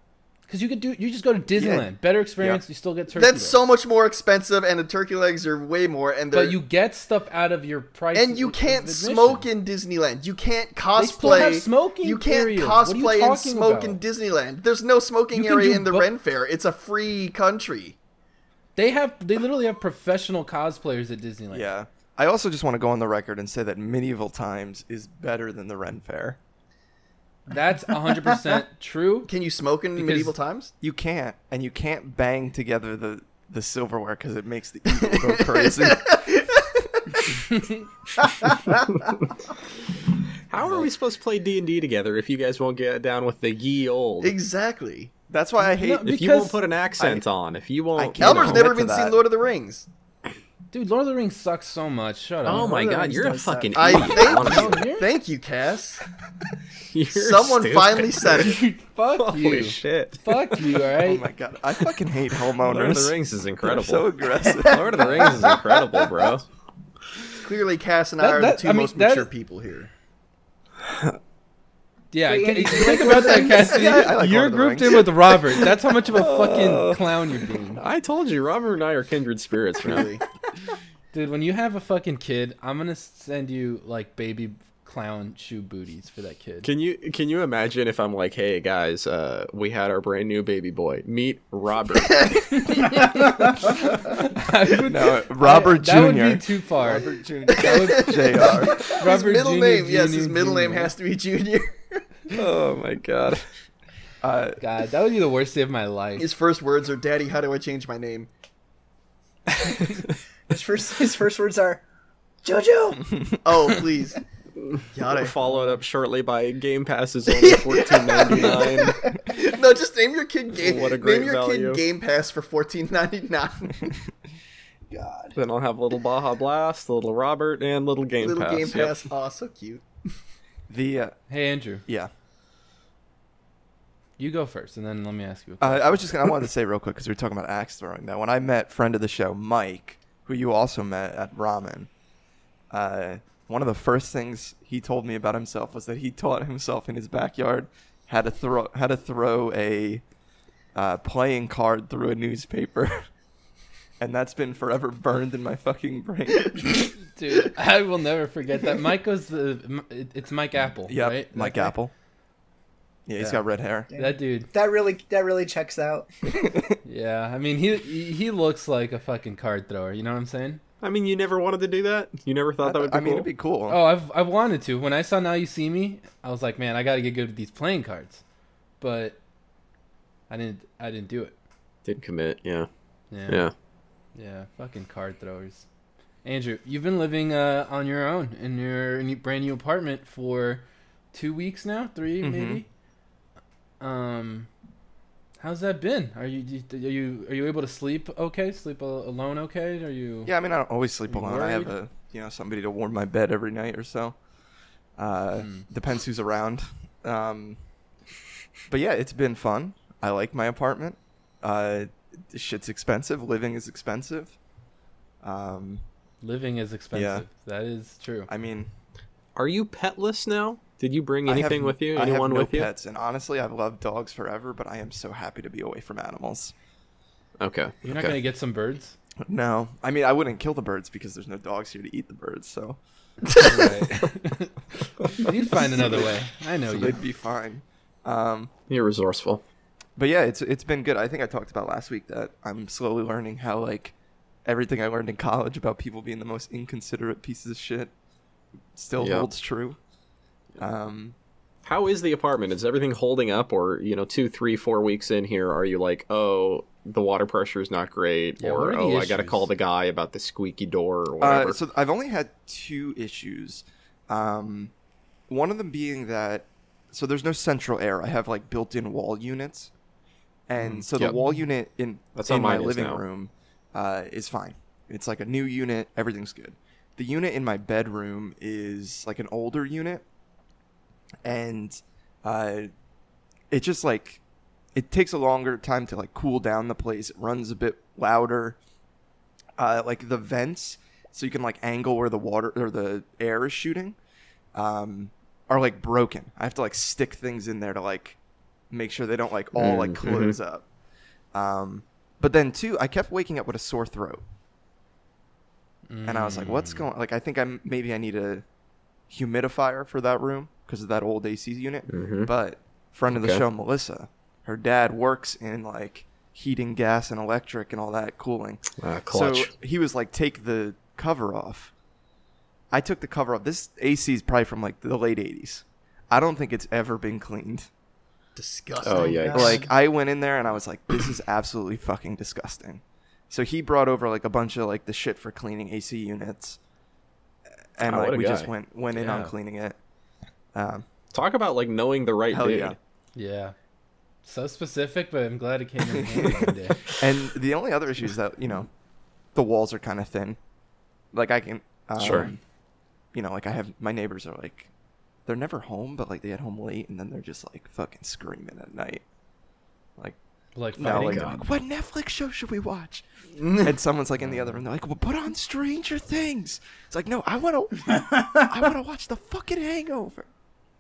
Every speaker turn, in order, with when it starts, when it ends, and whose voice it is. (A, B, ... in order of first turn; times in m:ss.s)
0:00.5-0:03.6 A
0:01.6-0:01.8 B
0:03.1-0:06.6 C
0:06.3-0:09.5 A
0:08.1-0:18.0 C
0:11.0-0:14.0 A
0:15.3-0:16.1 A
0:18.8-0:21.7 A
0:21.5-0:26.4 B
0:27.5-0:29.3 A
0:29.3-0:30.7 C
0:30.0-0:30.3 A
0:30.8-0:36.2 B
0:34.9-0:37.3 C
0:40.5-0:44.4 D
0:40.6-0:40.9 A
0:44.2-0:45.1 C
0:45.3-0:46.2 B
0:45.6-0:46.6 A
0:46.0-0:48.7 D
0:48.0-0:49.2 B
0:48.2-0:49.9 C
0:50.7-0:53.4 A
0:52.4-0:54.4 E
0:52.4-0:54.9 D
0:53.7-0:56.0 C
0:54.2-0:55.1 A
0:56.9-0:58.6 D
0:57.1-0:58.6 C
0:58.4-1:01.3 A
0:59.2-1:00.7 D
1:01.0-1:05.5 B
1:02.4-1:06.5 D
1:07.4-1:09.9 C
1:08.2-1:09.3 A
1:12.1-1:17.8 A
1:12.2-1:13.9 E
1:13.4-1:15.2 B
1:16.1-1:17.0 D
1:17.8-1:20.1 D
1:19.8-1:20.2 C
1:21.1-1:26.7 A
1:26.6-1:32.4 D
1:32.1-1:32.9 C
1:32.5-1:40.9 A
1:34.8-1:39.0 B
1:37.5-1:42.1 C
1:42.3-1:43.5 D
1:44.2-1:44.6 B
1:44.6-1:46.3 A
1:46.2-1:48.3 C
1:50.5-1:51.8 E
1:52.4-1:53.3 E
1:53.4-1:54.2 C
1:54.9-1:55.4 C
1:55.1-1:59.0 D
1:57.3-2:04.0 C
2:00.6-2:01.8 D
2:04.9-2:05.4 C
2:05.4-2:09.0 D
2:08.2-2:09.8 C
2:10.7-2:11.2 B
2:11.3-2:11.8 A
2:11.9-2:12.1 B
2:14.2-2:16.2 A
2:15.6-2:21.9 B
2:22.7-2:30.0 B
2:30.8-2:33.0 B
2:34.0-2:36.8 B
2:37.0-2:41.8 A
2:40.9-2:41.9 B
2:43.1-2:43.9 B
2:43.9-2:46.2 E
2:44.0-2:44.5 A
2:46.3-2:46.8 B
2:46.8-2:50.6 A
2:50.8-2:53.3 D
2:52.6-2:53.8 B
2:53.7-2:58.2 A
2:58.8-2:59.2 A
3:00.3-3:01.4 A
3:01.8-3:02.7 D
3:03.1-3:03.5 A
3:03.3-3:03.5 D
3:04.2-3:05.7 A
3:06.2-3:12.7 A
3:12.2-3:12.6 B
3:13.8-3:14.5 A
3:15.4-3:20.4 A
3:20.2-3:24.2 B
3:21.1-3:21.7 A
3:25.0-3:27.6 B
3:25.4-3:25.7 A
3:28.7-3:34.4 B
3:35.2-3:35.8 B
3:36.2-3:38.3 A
3:36.9-3:37.3 B
3:38.3-3:38.7 B
3:39.4-3:42.7 D
3:41.3-3:46.5 B
3:47.4-3:48.2 D
3:47.8-3:49.0 A
3:49.3-3:53.7 B
3:53.4-3:54.5 A
3:55.2-3:57.0 A
3:55.5-3:56.0 B
3:56.7-3:58.5 B
3:58.7-3:59.4 D
4:00.0-4:03.9 B
4:04.4-4:07.9 B
4:08.8-4:09.8 B
4:09.0-4:09.3 D
4:10.6-4:11.2 B
4:11.6-4:21.6 D
4:18.4-4:19.5 A
4:21.2-4:24.7 B
4:25.3-4:29.7 B
4:30.5-4:40.0 B
4:30.6-4:31.2 D
4:32.2-4:33.0 D
4:41.2-4:42.7 B
4:43.5-4:44.2 B
4:44.8-4:48.6 B
4:49.6-4:54.0 B
4:54.5-4:58.2 B
4:58.7-5:00.7 B
4:59.6-5:00.4 D
5:01.3-5:04.2 B
5:05.9-5:06.9 A
5:06.0-5:08.4 B
5:09.1-5:21.7 B
5:11.9-5:12.3 D
5:13.1-5:13.4 D
5:18.8-5:19.5 D
5:22.7-5:27.7 B
5:28.4-5:29.4 C
5:28.8-5:29.6 D
5:28.9-5:29.7 E
5:29.3-5:36.6 B
5:37.8-5:39.8 B
5:37.8-5:38.5 D
5:38.9-5:39.4 A
5:40.5-5:40.9 B
5:41.1-5:42.8 D
5:42.3-5:42.8 B
5:43.2-5:43.6 A
5:44.2-5:46.8 A
5:45.9-5:48.7 B
5:49.4-5:50.4 B
5:51.1-5:52.4 B
5:52.0-5:52.3 D
5:53.1-5:54.7 B
5:55.3-5:59.0 B
6:00.6-6:01.5 A
6:00.8-6:03.0 B
6:00.8-6:01.4 D
6:03.4-6:03.8 C
6:03.6-6:10.3 B
6:04.2-6:04.6 A